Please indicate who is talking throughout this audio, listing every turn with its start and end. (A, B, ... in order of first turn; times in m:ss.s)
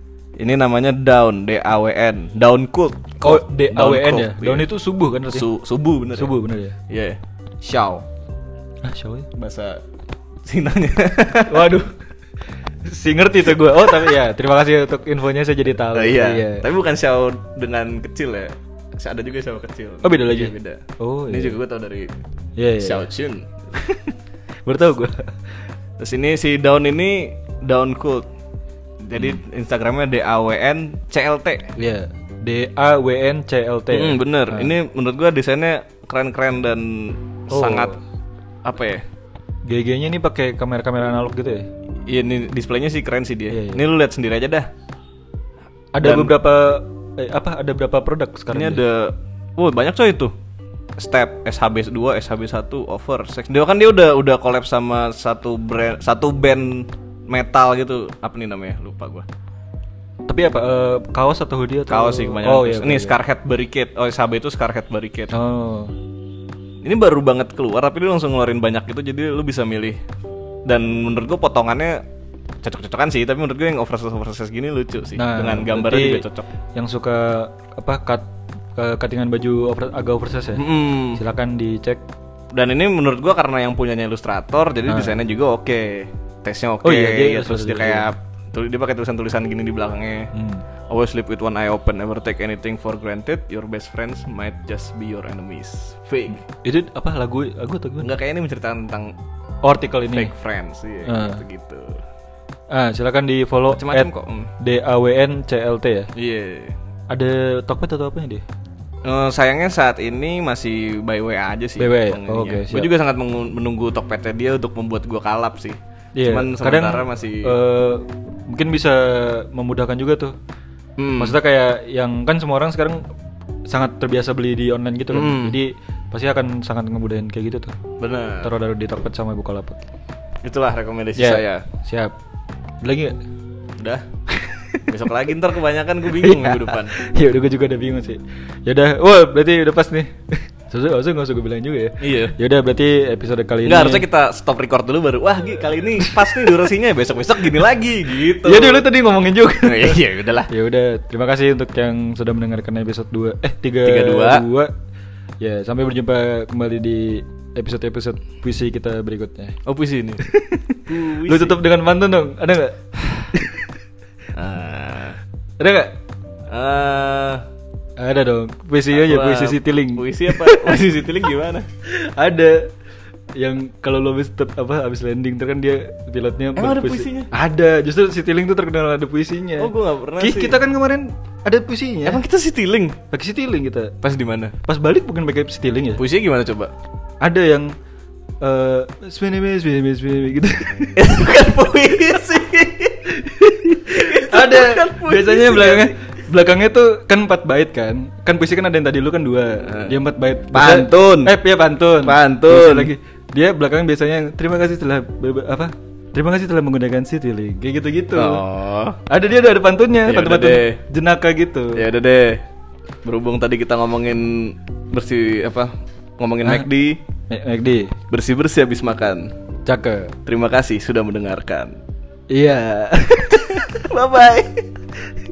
0:00.4-0:04.7 A
0:03.2-0:05.5 B
0:05.3-0:06.4 A
0:06.2-0:06.8 B
0:06.9-0:08.0 A
0:08.8-0:09.3 B
0:09.4-0:09.8 A
0:10.4-0:11.8 A
0:11.5-0:11.9 B
0:12.9-0:16.7 B
0:13.7-0:14.1 A
0:15.9-0:22.1 A
0:20.0-0:21.6 B
0:22.6-0:23.1 B
0:22.8-0:23.5 A
0:23.8-0:24.2 B
0:24.7-0:25.3 B
0:26.0-0:28.2 A
0:29.0-0:31.7 A
0:31.8-0:34.7 B
0:33.9-0:38.0 A
0:37.5-0:38.0 B
0:38.6-0:39.0 A
0:39.7-0:41.7 B
0:42.1-0:44.7 A
0:43.5-0:43.8 B
0:45.9-0:48.8 B
0:46.0-0:46.4 A
0:48.5-0:50.3 A
0:51.0-0:59.3 A
1:00.3-1:03.2 B
1:01.9-1:05.3 A
1:05.3-1:05.9 B
1:06.8-1:10.0 A
1:10.7-1:12.0 A
1:12.6-1:16.5 A
1:15.2-1:16.2 B
1:16.8-1:18.2 B
1:18.8-1:22.0 B
1:20.6-1:21.2 A
1:22.5-1:30.3 A
1:24.9-1:25.2 B
1:26.8-1:28.0 B
1:30.3-1:30.6 B
1:30.9-1:36.4 A
1:36.6-1:38.1 B
1:38.0-1:39.1 A
1:39.6-1:40.3 B
1:40.1-1:42.0 A
1:41.0-1:41.4 B
1:42.7-1:46.1 B
1:43.7-1:44.5 A
1:46.2-1:46.8 A
1:47.1-1:48.4 B
1:49.0-1:57.5 A
1:51.8-1:52.9 B
1:56.2-2:00.3 B
2:01.0-2:01.4 A
2:01.2-2:03.0 B
2:03.7-2:07.8 B
2:05.1-2:05.6 A
2:08.0-2:08.5 A
2:08.4-2:09.8 B
2:10.4-2:11.7 A
2:11.2-2:12.1 B
2:12.8-2:13.2 B
2:13.8-2:14.0 A
2:14.3-2:14.8 B
2:14.9-2:17.0 A
2:16.1-2:24.0 B
2:22.0-2:22.4 A
2:23.6-2:28.8 A
2:28.4-2:34.7 B
2:29.6-2:30.5 A
2:33.8-2:34.4 A
2:35.4-2:39.6 B
2:39.6-2:40.2 A
2:40.2-2:43.7 B
2:40.9-2:41.6 A
2:44.4-2:45.2 A
2:45.6-2:46.0 B
2:46.5-2:47.4 A
2:48.0-2:50.8 B
2:48.9-2:51.7 A
2:51.9-2:52.7 B
2:53.4-3:02.2 B
2:56.6-2:57.3 A
2:59.6-3:00.6 A
3:02.0-3:03.0 A
3:03.1-3:04.0 B
3:04.0-3:04.6 A
3:04.6-3:06.0 B
3:06.0-3:06.7 A
3:07.2-3:07.7 B
3:08.4-3:11.1 B
3:11.0-3:13.1 A
3:13.1-3:28.4 B
3:13.9-3:15.9 A
3:19.6-3:20.0 A
3:20.5-3:21.3 A
3:22.0-3:22.9 A
3:28.2-3:29.0 A
3:29.1-3:31.8 B
3:30.1-3:30.8 A
3:31.8-3:32.4 A
3:33.0-3:37.0 A
3:37.3-3:38.0 B
3:38.1-3:39.3 A
3:39.7-3:40.1 B
3:40.3-3:41.8 A
3:42.3-3:43.8 B
3:43.5-3:44.7 A